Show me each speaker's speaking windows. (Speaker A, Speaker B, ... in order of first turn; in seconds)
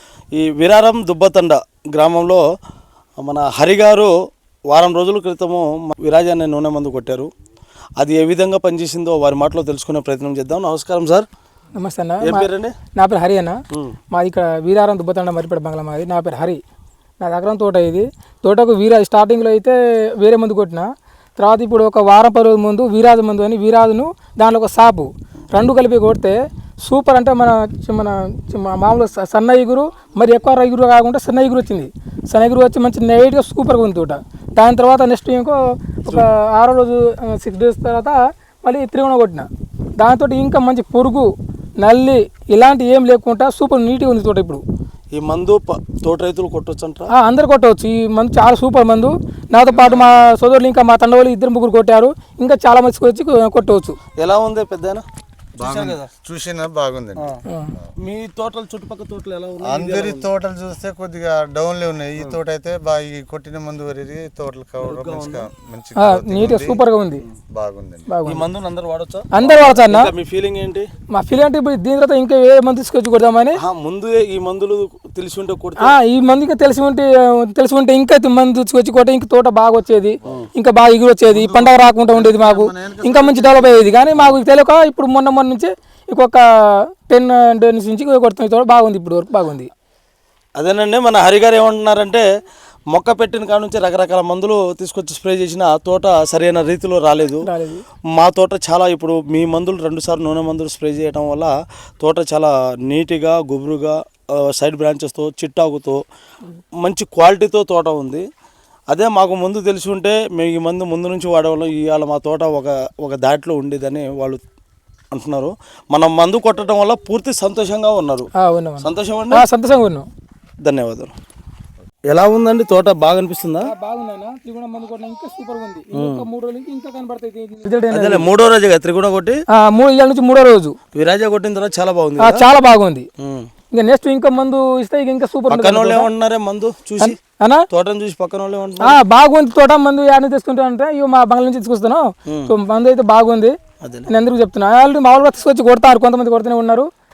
Speaker A: 0.3-2.4, 3.2-4.1, 4.7-7.3, 8.0-11.3, 12.2-12.8, 45.1-47.1, 54.2-55.0, 55.6-56.1, 57.2-57.4, 58.0-60.3, 64.8-65.5, 68.2-70.9, 73.6-76.0, 90.6-92.2, 92.9-97.5, 98.2-106.0, 106.8-108.3, 108.9-114.4, 115.1-118.3, 118.8-119.4, 120.6-121.1, 122.1-123.7, 126.0-126.2, 127.9-129.4, 130.9-132.4, 133.2-133.5, 135.5-137.2, 137.7-139.0, 142.3-142.5, 143.8-144.1
Speaker B: 11.8-13.6, 14.1-16.6, 17.2-41.3, 41.8-44.6, 47.1-54.0, 57.5-57.7, 66.0-67.2, 68.1-68.5, 69.3-70.1, 71.1-73.6, 75.8-89.7, 97.4-97.8, 118.4-120.1, 123.6-128.3, 129.5-130.8, 132.2-133.1, 133.7-136.1, 137.0-137.7, 138.8-143.6, 144.1-146.9
Speaker C: 55.6-57.9, 59.6-66.8, 67.5-68.1, 81.3-83.9